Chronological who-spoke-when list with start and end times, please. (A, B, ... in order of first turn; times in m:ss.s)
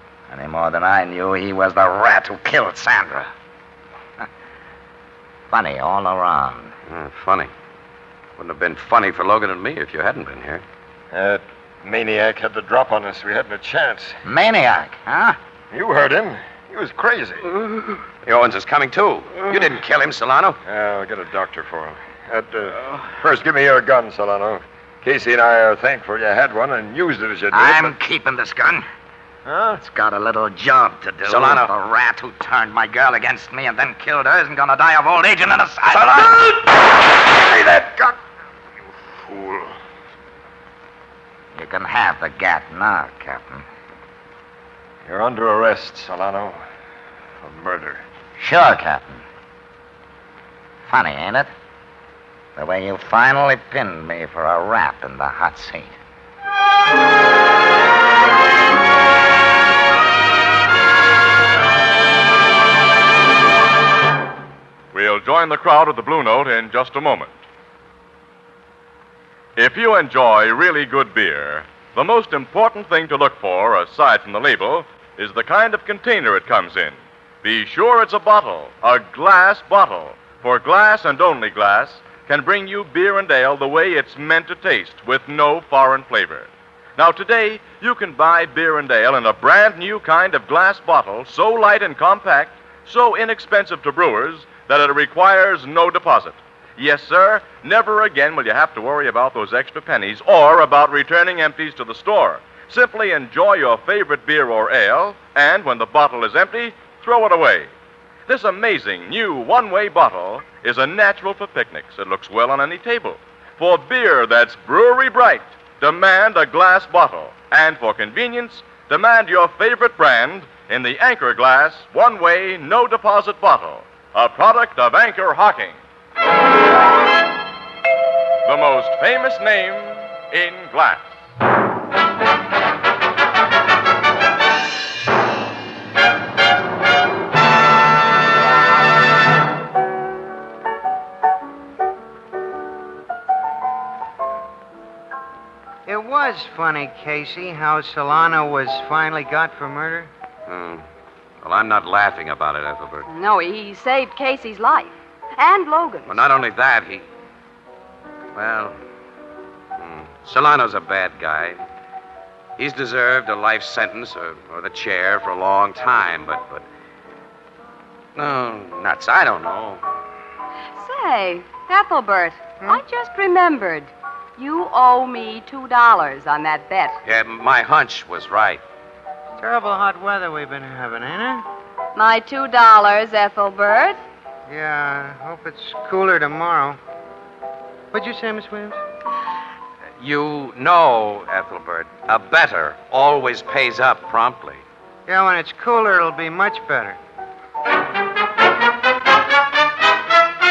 0:00.3-0:03.3 A
0:05.5-0:06.7 A
0:06.9-0:07.5 B
0:08.4-0:10.6 B
0:11.1-0:14.2 C
0:14.2-0:15.4 A
0:15.7-0:17.5 C
0:18.2-0:20.6 B
0:20.6-0:27.9 C
0:27.5-0:28.9 A
0:29.4-0:29.8 C
0:29.7-0:36.4 A
0:31.2-0:31.7 B
0:37.7-0:38.1 C
0:39.1-0:39.7 C
0:41.5-0:43.6 A
0:45.0-0:46.6 C
0:47.4-0:48.0 C
0:48.4-0:49.2 A
0:50.9-0:51.5 A
0:52.6-0:55.9 A
1:04.9-1:07.3 D
1:09.6-1:47.7 D
1:48.3-2:05.8 D
2:08.4-2:11.1 D
2:25.8-2:30.1 E
2:30.5-2:30.8 B
2:31.4-2:33.1 B
2:33.1-2:36.2 F
2:36.0-2:37.0 B
2:38.3-2:38.8 B
2:39.8-2:41.6 B
2:42.6-2:46.6 B
2:48.2-2:49.8 B
2:50.8-2:57.0 F
2:57.0-2:58.6 B
2:59.4-3:01.4 E
3:01.9-3:04.0 F
3:04.5-3:06.8 E
3:07.9-3:08.8 E
3:10.0-3:14.6 B
3:15.1-3:17.0 E